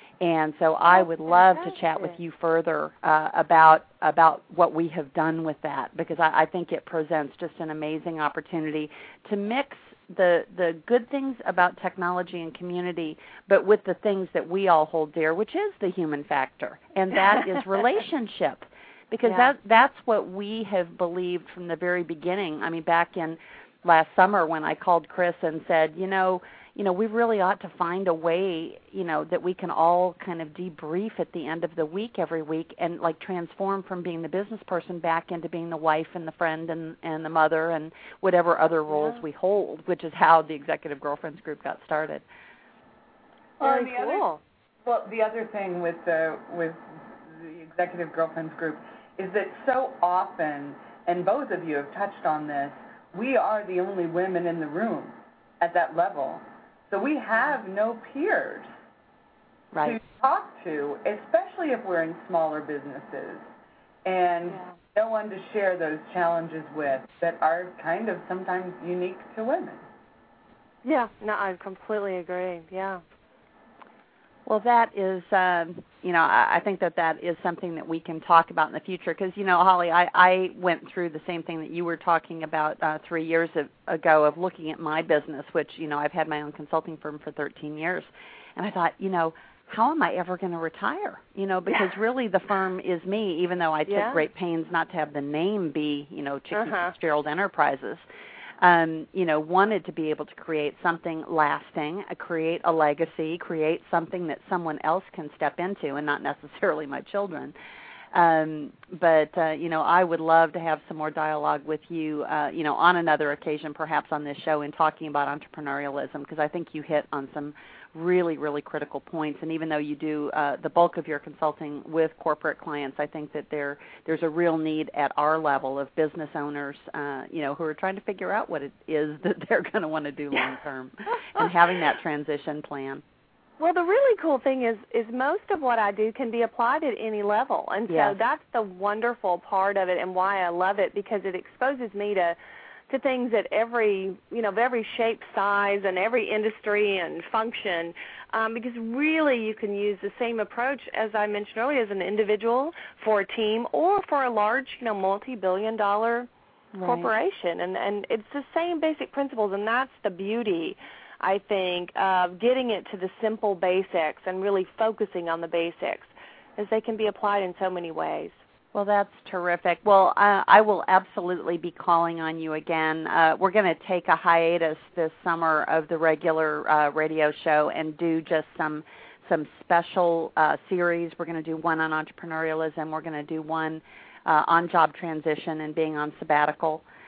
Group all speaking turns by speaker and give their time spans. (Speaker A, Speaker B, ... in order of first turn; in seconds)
Speaker A: 0.2-42.2, 59.7-60.0, 74.5-98.0, 98.6-107.5, 108.1-133.0, 137.9-138.2, 156.7-157.1, 168.7-186.8
Speaker B: 0.9-2.2, 19.2-19.5, 38.9-39.2, 43.6-44.4, 64.5-64.8, 70.8-73.0, 93.9-94.2, 96.5-96.9, 133.6-142.4, 142.9-156.3, 156.8-168.3
Speaker C: 43.6-44.3, 44.8-58.7, 59.8-63.5, 64.0-69.8